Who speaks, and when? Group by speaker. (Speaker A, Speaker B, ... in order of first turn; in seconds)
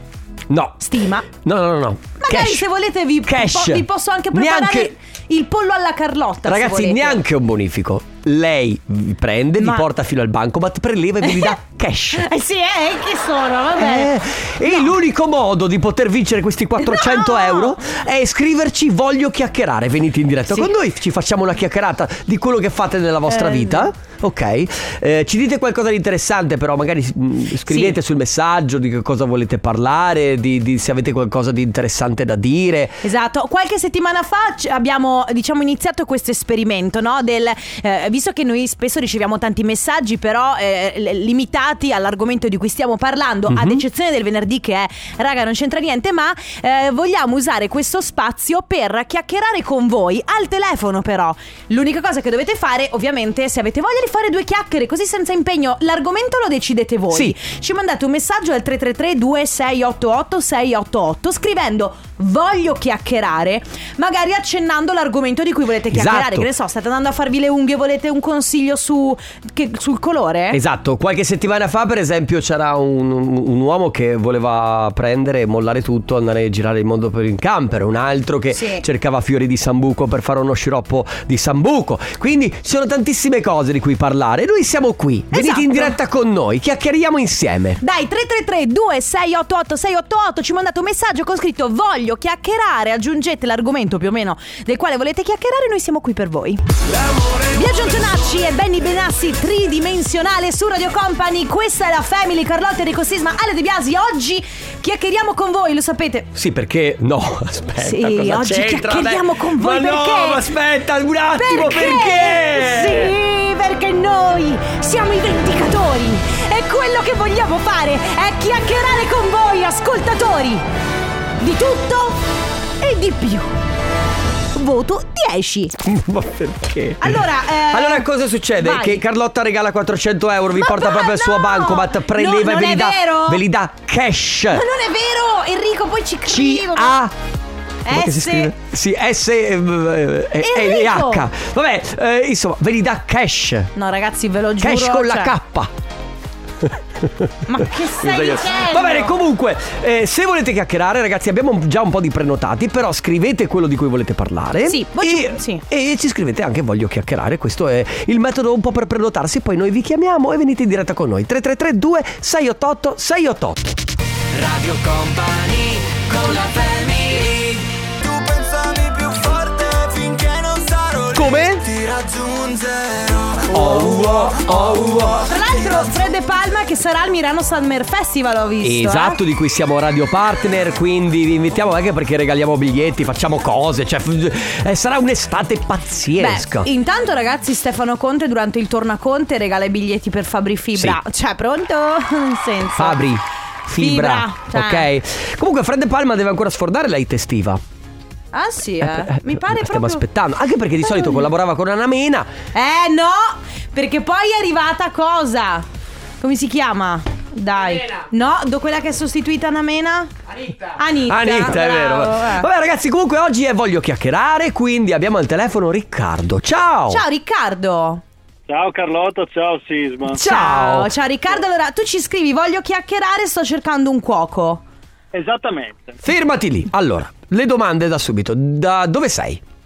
Speaker A: 0.5-2.6, 3.2-4.9, 6.4-12.2, 13.8-33.0, 43.5-43.8, 57.1-57.4, 65.9-66.5, 70.5-87.8, 106.3-113.1, 125.8-134.6, 136.3-137.1, 137.9-143.7, 144.6-145.7, 146.7-147.3, 148.0-163.8, 171.1-171.7, 173.5-175.2, 178.6-186.7, 192.8-197.6, 198.8-202.3, 211.1-217.0, 220.1-220.9, 226.0-229.4
Speaker B: 0.8-1.3, 2.2-7.2, 9.6-9.8, 11.2-11.6, 12.1-14.9, 16.8-17.8, 23.3-23.9, 27.7-28.0, 33.0-70.6, 78.5-78.8, 85.3-86.0, 87.8-96.6, 97.5-106.3, 107.8-110.5, 111.3-120.6, 121.4-122.2, 122.8-123.5, 124.5-125.8, 127.0-129.0, 130.5-133.4, 134.5-137.0, 137.8-138.5, 140.4-141.3, 143.8-145.3, 147.4-149.2, 154.7-155.6, 175.2-179.2, 186.2-193.0, 193.7-194.9, 198.3-200.0, 200.8-201.3, 202.5-205.6, 206.2-212.5, 216.9-218.0, 220.1-224.6
Speaker C: 97.0-98.1, 164.3-175.8
Speaker D: 218.5-220.2, 225.1-226.0